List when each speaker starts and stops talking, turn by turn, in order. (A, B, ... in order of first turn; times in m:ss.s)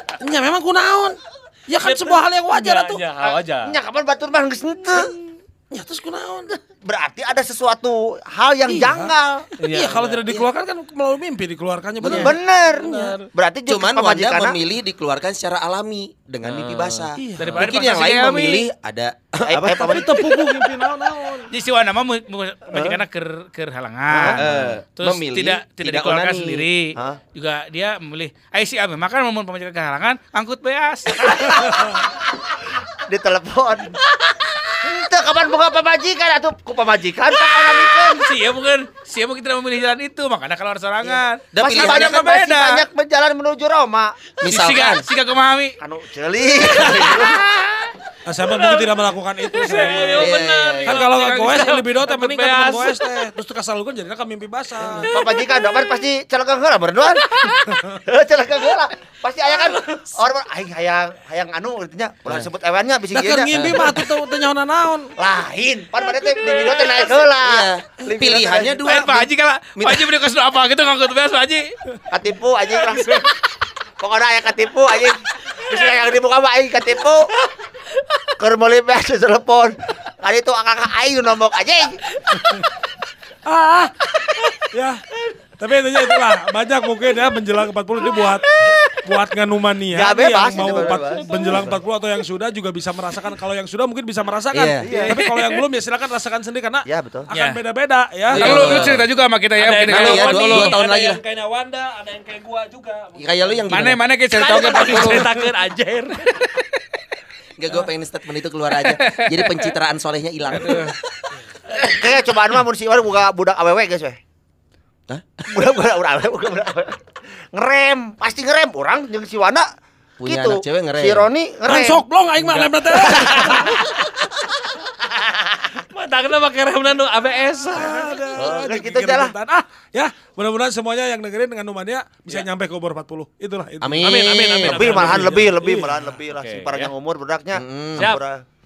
0:00.2-0:03.0 A
0:01.8-0:03.8 B
0:03.6-0:05.2 C
0:05.7-0:06.6 A
0:06.8-0:09.5 C
0:08.7-0:09.1 A
0:09.6-0:10.2 B
0:09.6-0:13.3 A
0:12.0-0:12.3 D
0:12.1-0:14.6 C
0:13.7-0:20.2 D
0:16.4-0:17.1 B
0:17.2-0:17.6 A
0:17.4-0:18.6 E
0:19.5-0:20.2 C
0:19.8-0:21.5 A
0:21.5-0:24.4 E
0:22.7-0:23.0 C
0:24.1-0:24.4 C
0:24.3-0:26.7 D
0:25.0-0:31.7 E
0:31.2-0:32.2 C
0:33.0-0:38.3 C
0:37.8-0:42.8 E
0:41.0-0:44.2 C
0:41.5-0:42.2 D
0:44.4-0:45.0 D
0:44.4-0:45.8 E
0:45.8-0:47.5 C
0:47.0-0:47.2 E
0:48.3-0:50.3 A
0:48.4-0:48.9 B
0:49.5-0:53.1 B
0:50.2-0:51.1 D
0:50.8-0:55.1 A
0:54.8-0:55.1 D
0:55.1-1:04.1 C
1:03.1-1:05.1 A
1:03.5-1:03.9 D
1:05.2-1:08.8 C
1:07.4-1:10.1 D
1:08.8-1:11.6 E
1:12.1-1:13.3 C
1:14.0-1:17.3 C
1:18.4-1:22.0 C
1:23.5-1:24.0 A
1:24.6-1:25.0 A
1:25.6-1:38.9 A
1:29.9-1:31.8 C
1:34.5-1:34.9 D
1:34.9-1:35.3 C
1:36.9-1:37.3 C
1:37.3-1:37.6 E
1:38.3-1:39.0 D
1:38.3-1:40.8 E
1:39.6-1:43.7 B
1:39.9-1:41.2 D
1:43.2-1:44.0 D
1:43.7-1:45.3 E
1:44.3-1:46.2 B
1:46.2-1:46.8 E
1:47.6-1:51.0 D
1:48.8-1:49.7 E
1:50.5-1:51.0 E
1:51.7-1:54.2 C
1:55.1-1:55.4 D
1:55.5-1:57.0 C
1:57.5-1:59.6 C
2:00.2-2:01.3 D
2:00.2-2:02.0 C
2:01.7-2:03.8 A
2:03.1-2:03.9 B
2:05.1-2:05.7 C
2:05.9-2:08.6 B
2:07.7-2:16.0 A
2:08.4-2:09.3 C
2:13.8-2:15.0 D
2:14.0-2:15.1 B
2:14.6-2:18.4 C
2:16.3-2:16.9 B
2:17.5-2:18.1 D
2:18.0-2:18.2 B